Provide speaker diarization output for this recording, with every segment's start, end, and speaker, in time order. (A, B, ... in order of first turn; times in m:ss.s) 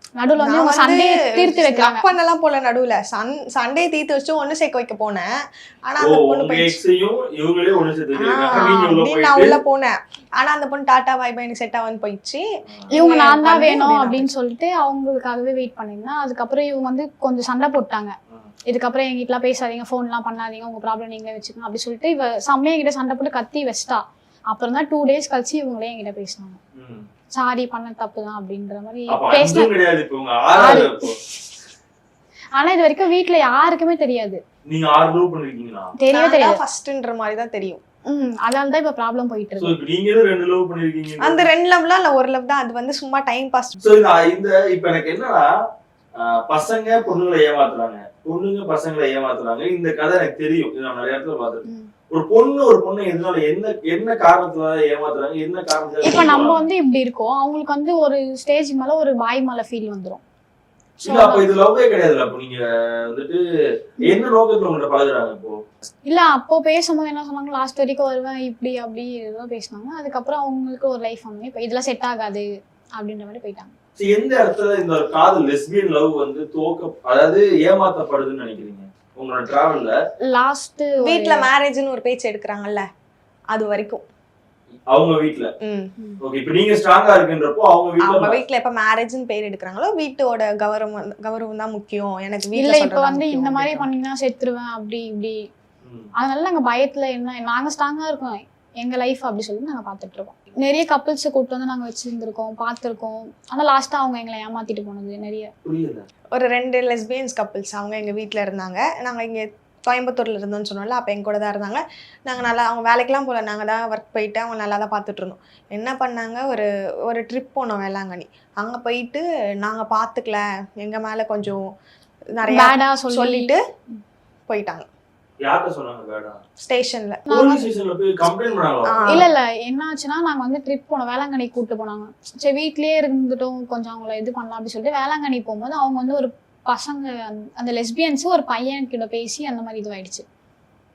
0:00.2-0:02.0 A
0:00.4-0:05.3 B
0:05.8-0:06.8 B
0:06.0-0:09.6 C
0:08.2-0:14.3 B
0:13.0-0:18.1 A
0:18.7-0:26.6 A
0:26.8-0:27.1 C
0:27.3-0:29.7 A
0:29.1-0:31.2 C
0:30.5-0:31.1 A
0:32.6-0:34.4 A
0:34.7-0:35.9 C
0:36.0-0:36.6 A
0:36.1-0:37.8 B
0:38.1-0:39.8 A
0:39.6-0:41.5 C
0:41.2-0:43.8 B
0:43.8-0:45.5 C
0:46.2-0:56.6 C
0:56.0-1:00.2 A
1:01.0-1:01.5 A
1:01.0-1:03.4 C
1:04.0-1:05.6 C
1:06.1-1:13.7 A
1:14.0-1:20.0 C
1:20.2-1:21.4 A
1:21.0-1:22.8 B
1:23.5-1:24.0 B
1:24.9-1:25.5 C
1:25.6-1:25.9 B
1:26.2-1:28.4 C
1:28.0-1:33.9 B
1:32.6-1:35.4 A
1:35.8-1:36.1 C
1:36.2-1:45.5 A
1:45.6-1:46.1 C
1:46.3-2:01.6 B
2:02.4-2:03.6 B
2:02.5-2:03.5 A
2:04.5-2:04.9 B
2:05.4-2:06.4 C
2:06.6-2:07.2 B
2:07.3-2:09.2 C
2:07.3-2:07.6 A
2:08.8-2:09.2 B
2:09.1-2:20.2 A